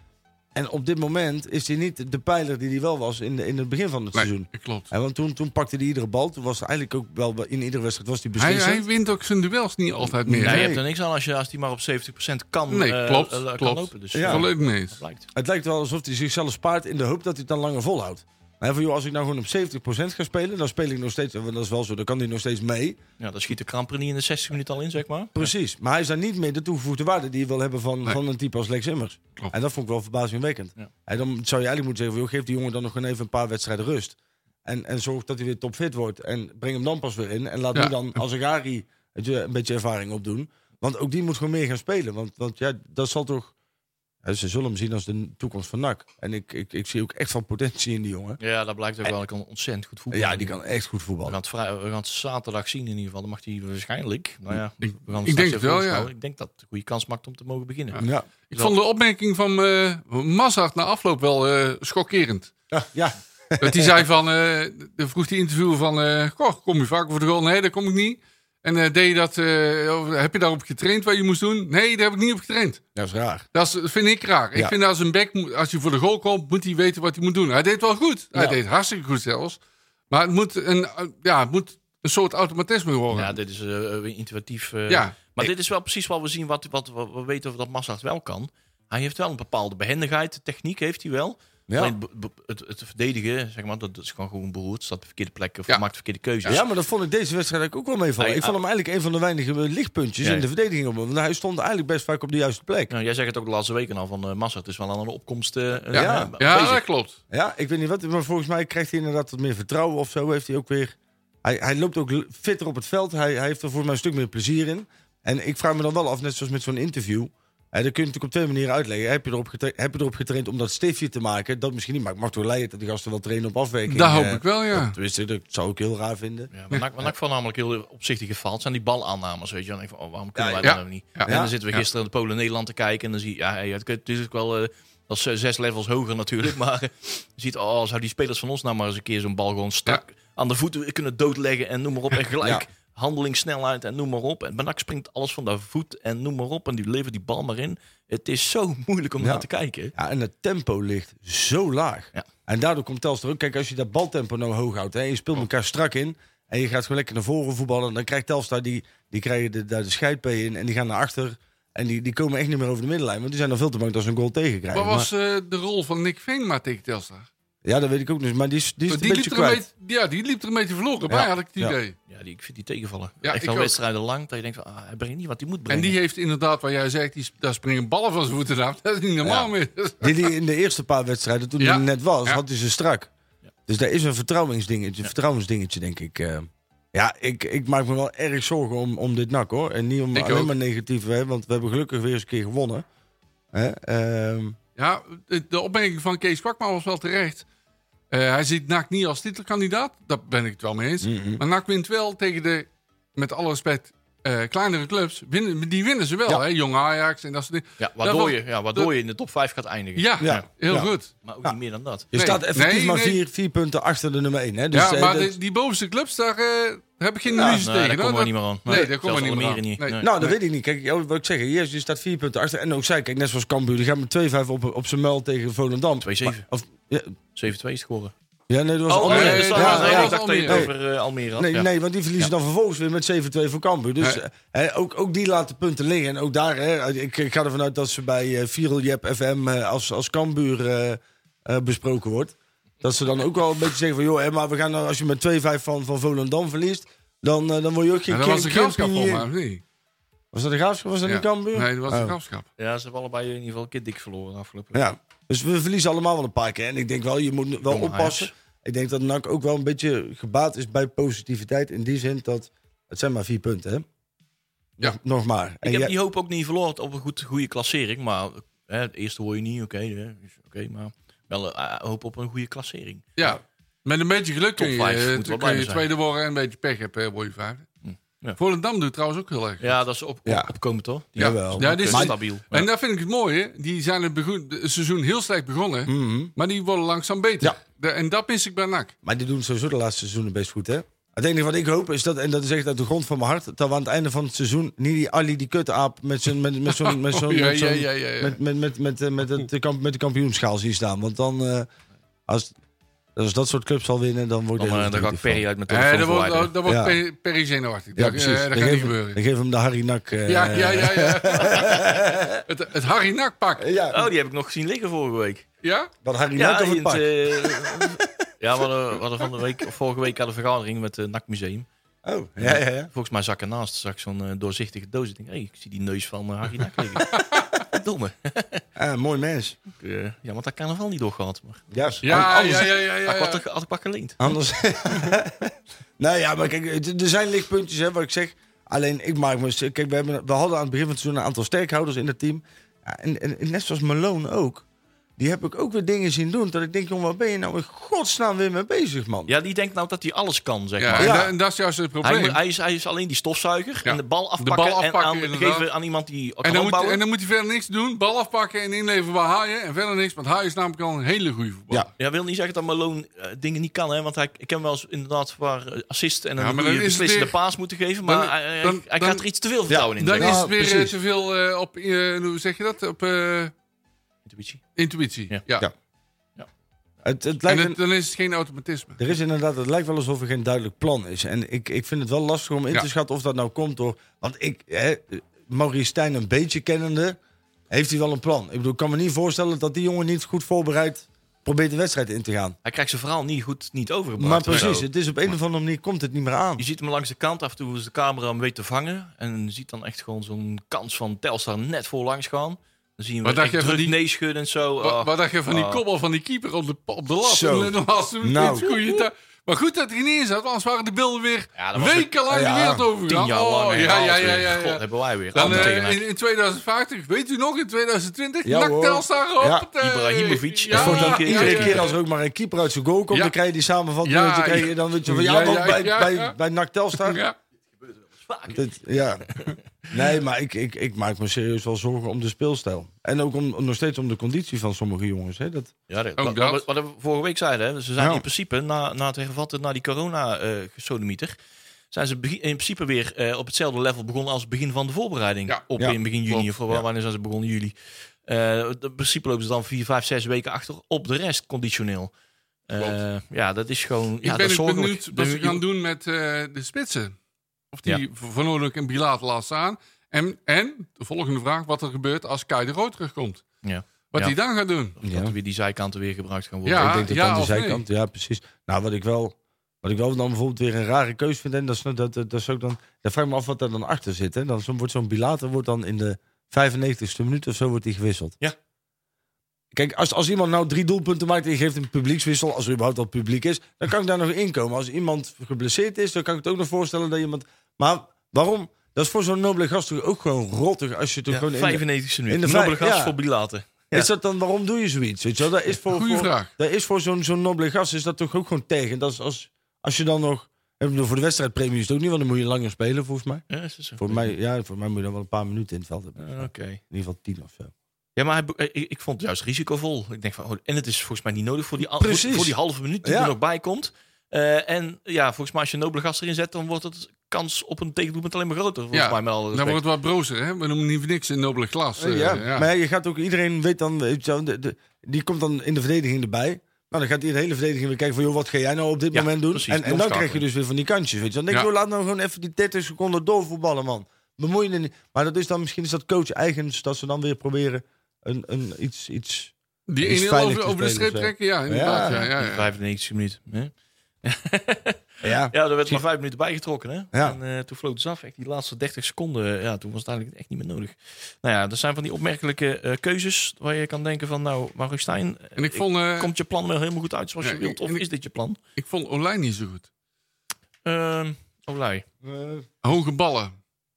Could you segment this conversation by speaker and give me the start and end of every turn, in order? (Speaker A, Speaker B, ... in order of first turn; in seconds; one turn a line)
Speaker A: 0.6-8.9
Speaker B: 4.1-4.9
Speaker B: 8.4-10.7
Speaker A: 10.1-10.8
Speaker C: 10.4-15.3
Speaker B: 12.7-15.0
Speaker A: 14.1-14.5
Speaker A: 15.3-23.0
Speaker C: 23.2-25.5
Speaker A: 25.3-43.5
Speaker B: 37.7-38.2
Speaker A: 44.2-48.4
Speaker C: 48.4-50.6
Speaker A: 50.1-51.4
Speaker C: 51.2-58.0
Speaker B: 54.8-56.1
Speaker B: 57.9-62.5
Speaker A: 58.0-58.3
Speaker A: 62.7-64.0
Speaker B: 63.6-72.8
Speaker A: 73.0-73.5
Speaker B: 73.5-79.6
Speaker B: 80.1-83.4
Speaker C: 83.1-96.6
Speaker B: 84.9-85.2
Speaker A: 91.7-91.9
Speaker A: 96.5-102.9
Speaker C: 98.2-98.6
Speaker C: 102.9-106.8
Speaker A: 105.9-106.3
Speaker B: 105.9-107.2
Speaker A: 107.3-126.5
Speaker B: 123.9-125.0
Speaker C: 126.5-149.9
Speaker A: 130.4-130.7
Speaker B: 130.6-131.8
Speaker A: 131.2-131.5
Speaker A: 149.2-165.1
Speaker B: 164.7-167.3
Speaker A: 167.7-169.7
Speaker B: 168.9-171.9
Speaker A: 171.1-171.8
Speaker C: 172.1-176.0
Speaker B: 173.2-173.8
Speaker B: 175.7-180.3
Speaker A: 179.2-179.5
Speaker A: 180.0-183.1
Speaker B: 181.6-182.4
Speaker A: 183.7-192.9
Speaker B: 190.1-190.5
Speaker A: 193.5-194.6
Speaker B: 194.8-197.4
Speaker B: 198.1-208.9
Speaker A: 201.0-201.4
Speaker C: 207.8-210.5
Speaker B: 210.0-211.1
Speaker A: 210.2-210.9
Speaker C: 211.2-212.1
Speaker A: 212.1-215.4
Speaker B: 212.2-213.2
Speaker B: 214.7-220.3
Speaker A: 217.3-217.7
Speaker C: 217.6-220.1
Speaker A: 220.0-227.2
Speaker C: 226.0-226.4
Speaker C: 227.3-228.1
Speaker A: 228.5-230.7
Speaker C: 228.9-232.3
Speaker B: 229.0-230.7
Speaker A: 231.4-249.3
Speaker B: 248.1-249.6
Speaker A: 250.3-252.2
Speaker B: 251.1-252.5
Speaker C: 252.6-254.9
Speaker A: 254.7-263.9
Speaker C: 257.7-258.3
Speaker A: 264.8-265.9
Speaker C: 265.6-273.2
Speaker B: 273.2-277.7
Speaker C: 274.6-275.9
Speaker C: 277.8-278.4
Speaker B: 278.4-279.7
Speaker C: 279.6-282.7
Speaker A: 280.3-280.5
Speaker A: 281.2-282.1
Speaker B: 281.2-288.9
Speaker A: 285.9-286.3
Speaker A: 289.0-301.7
Speaker B: 296.7-298.4
Speaker A: 302.3-302.5
Speaker A: 303.2-305.4
Speaker C: 304.6-306.6
Speaker B: 305.7-309.2
Speaker A: 306.7-307.0
Speaker A: 308.0-312.4
Speaker B: 310.3-311.9
Speaker B: 312.5-313.7
Speaker A: 313.6-314.1
Speaker C: 313.9-315.5
Speaker B: 315.6-315.9
Speaker A: 316.0-318.1
Speaker C: 316.4-321.7
Speaker A: 322.1-322.9
Speaker C: 322.4-328.6
Speaker B: 327.0-327.6
Speaker A: 328.8-329.6
Speaker C: 329.8-334.3
Speaker A: 331.7-332.7
Speaker B: 332.1-333.4
Speaker A: 334.2-344.6
Speaker A: 345.2-349.3
Speaker C: 349.3-351.3
Speaker B: 350.8-352.4
Speaker A: 351.0-351.3
Speaker C: 352.0-357.0
Speaker B: 353.9-355.7
Speaker B: 356.4-361.9
Speaker C: 362.0-370.4
Speaker B: 366.4-367.4
Speaker B: 368.1-369.2
Speaker A: 369.7-370.9
Speaker B: 370.0-373.5
Speaker C: 374.3-374.6
Speaker B: 374.8-375.7
Speaker A: 377.0-377.8
Speaker B: 377.5-379.0
Speaker A: 379.0-387.2
Speaker A: 387.7-392.6
Speaker C: 392.6-394.9
Speaker A: 394.2-396.6
Speaker C: 396.6-405.8
Speaker B: 403.2-404.0
Speaker B: 404.8-421.9
Speaker A: 407.2-408.8
Speaker C: 411.6-412.1
Speaker A: 412.3-412.9
Speaker C: 413.1-416.1
Speaker A: 415.4-415.7
Speaker A: 418.4-419.7
Speaker C: 419.8-421.9
Speaker A: 420.7-427.2
Speaker B: 424.0-426.4
Speaker B: 427.0-427.4
Speaker C: 428.0-428.8
Speaker A: 428.5-429.3
Speaker C: 429.3-429.6
Speaker A: 429.9-435.7
Speaker C: 435.9-441.4
Speaker B: 436.2-436.6
Speaker A: 438.0-438.2
Speaker C: 441.9-447.7
Speaker B: 446.3-446.8
Speaker C: 448.3-452.1
Speaker C: 452.7-455.6
Speaker B: 454.2-457.1
Speaker B: 457.7-463.4
Speaker C: 463.6-464.4
Speaker B: 464.1-464.9
Speaker C: 465.0-467.1
Speaker A: 465.0-465.4
Speaker B: 466.7-467.9
Speaker A: 466.7-478.4
Speaker A: 479.7-493.2
Speaker C: 491.3-494.1
Speaker A: 493.9-503.4
Speaker B: 495.9-496.5
Speaker C: 503.5-504.4
Speaker A: 504.0-507.7
Speaker C: 506.2-506.8
Speaker C: 508.2-519.8
Speaker A: 511.9-513.4
Speaker B: 518.9-522.7
Speaker A: 522.0-542.2
Speaker C: 529.1-530.4
Speaker B: 539.9-542.7
Speaker C: 541.9-543.7
Speaker C: 544.2-558.6
Speaker A: 545.2-546.0
Speaker B: 555.6-556.3
Speaker B: 557.4-558.0
Speaker B: 558.8-559.9
Speaker C: 560.9-562.0
Speaker A: 562.2-562.7
Speaker B: 562.8-563.5